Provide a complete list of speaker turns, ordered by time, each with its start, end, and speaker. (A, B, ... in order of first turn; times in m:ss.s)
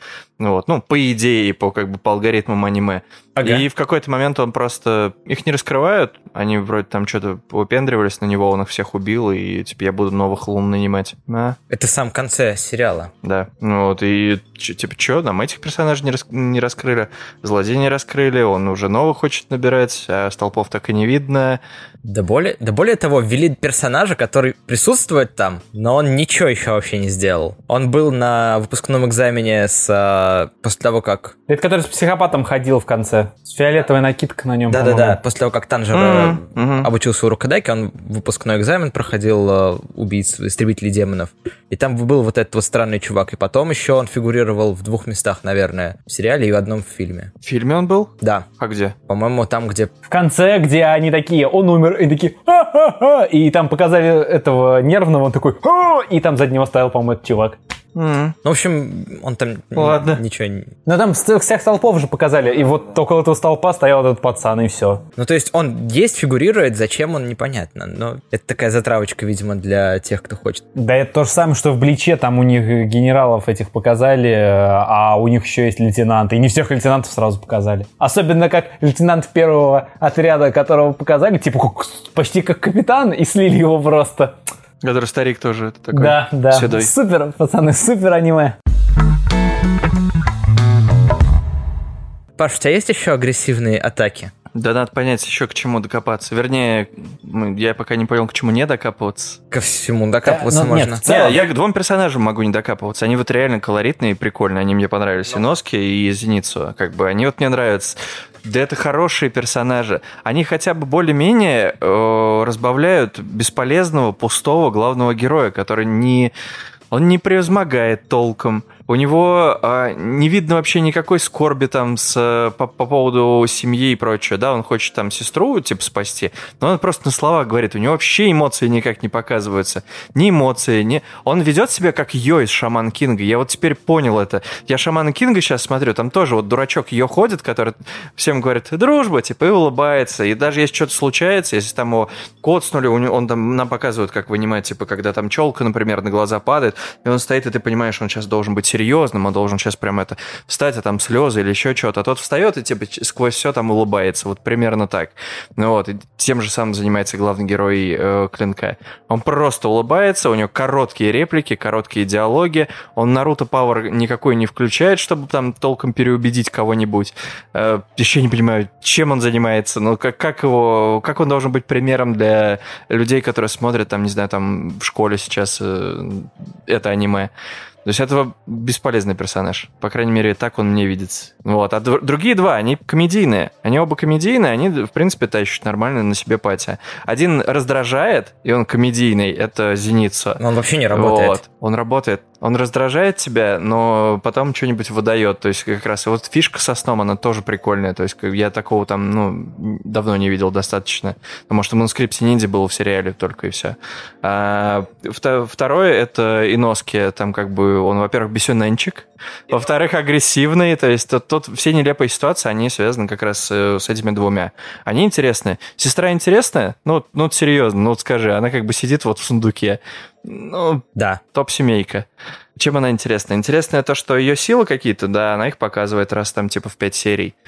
0:00.4-0:11.6 A
0:03.4-0:03.6 B
0:11.7-0:13.1 B
0:13.2-0:21.6 A
0:22.0-0:31.3 B
0:31.5-0:35.2 C
0:34.7-0:47.3 B
0:35.9-0:36.9 A
0:47.4-0:48.9 A
0:49.1-0:49.9 B
0:50.1-0:57.6 C
0:57.9-0:58.4 A
0:58.4-1:00.7 B
0:59.7-1:00.2 A
1:00.8-1:05.0 C
1:05.2-1:10.6 B
1:10.7-1:24.4 C
1:24.8-1:26.9 A
1:25.9-1:28.6 C
1:32.4-1:34.3 B
1:34.5-1:39.4 A
1:39.5-1:41.0 B
1:40.2-1:41.4 C
1:41.0-1:56.3 A
1:56.9-2:57.3 A
2:57.8-3:47.3 A
3:10.4-3:11.4 B
3:41.0-3:41.2 B